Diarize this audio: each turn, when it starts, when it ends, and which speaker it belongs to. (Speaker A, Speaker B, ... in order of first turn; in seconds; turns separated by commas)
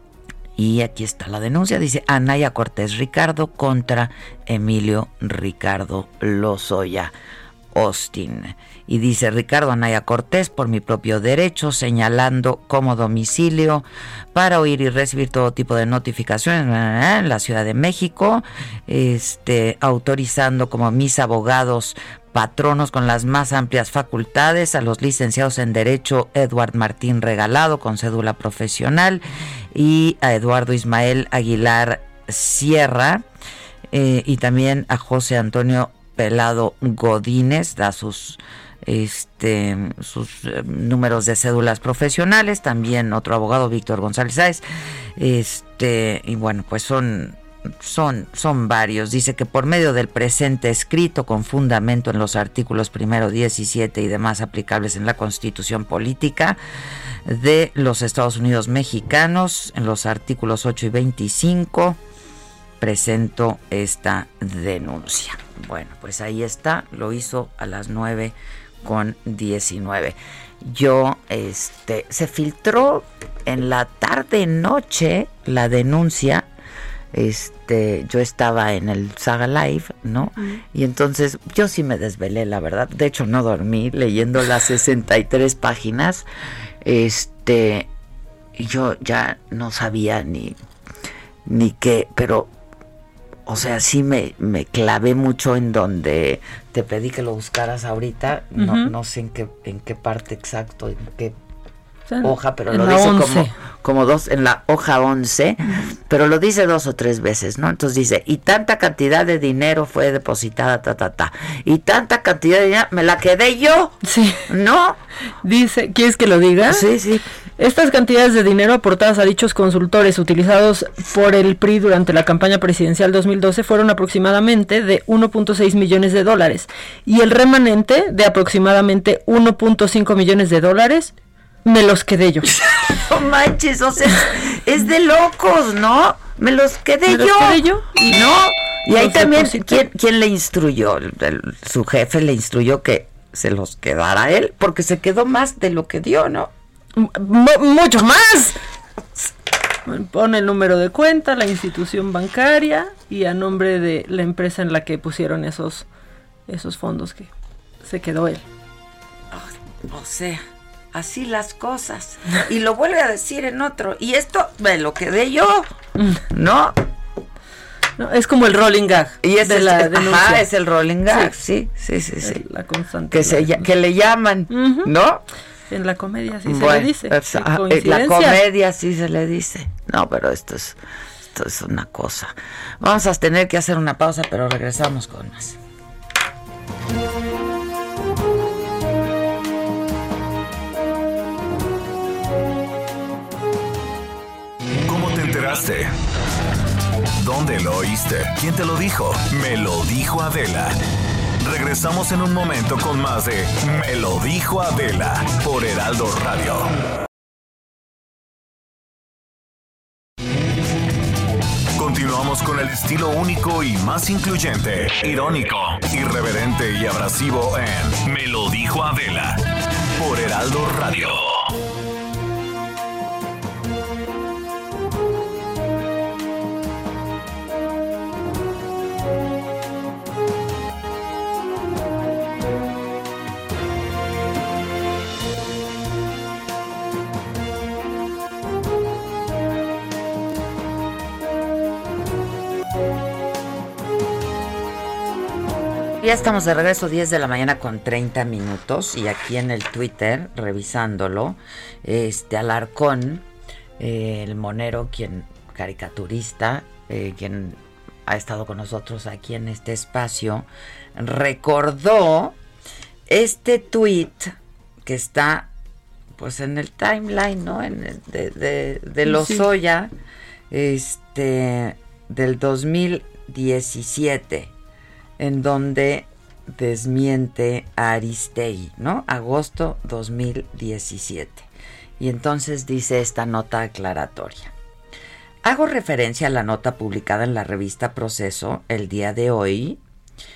Speaker A: 0.6-7.1, Speaker A: 7.7-29.2, Speaker A: 29.7-33.2, Speaker A: 33.9-44.6, Speaker A: 45.2-56.6, Speaker A: 57.2-62.0, Speaker A: 62.8-76.5, Speaker A: 77.1-86.3, Speaker A: 86.8-87.9, Speaker A: 88.5-90.6, Speaker A: 91.5-92.5, Speaker A: 93.5-101.3, Speaker B: 98.6-98.9, Speaker B: 102.1-103.5, Speaker A: 102.2-113.9, Speaker B: 114.0-114.4, Speaker A: 114.5-115.0, Speaker B: 115.4-116.8, Speaker A: 116.7-117.2, Speaker B: 117.6-131.1, Speaker B: 131.6-132.5, Speaker A: 133.1-146.5, Speaker B: 137.1-138.3, Speaker B: 138.9-139.8, Speaker B: 146.9-148.6, Speaker B: 149.8-155.8, Speaker B: 156.5-157.3, Speaker B: 157.8-158.4, Speaker A: 159.3-165.7, Speaker A: 166.3-166.8, Speaker B: 168.0-170.4, Speaker A: 169.2-172.4, Speaker B: 172.2-173.6, Speaker A: 173.1-175.2, Speaker B: 174.5-174.9, Speaker B: 175.7-178.4, Speaker A: 176.4-180.8, Speaker A: 181.3-185.6, Speaker C: 194.8-195.9, Speaker C: 197.2-200.8, Speaker C: 201.4-206.7, Speaker C: 211.8-221.5, Speaker A: 246.0-253.2, Speaker A: 253.8-262.4, Speaker A: 263.1-265.5, Speaker A: 266.1-269.9, Speaker B: 269.1-269.4, Speaker A: 270.5-274.5, Speaker A: 275.2-284.5, Speaker A: 285.4-289.8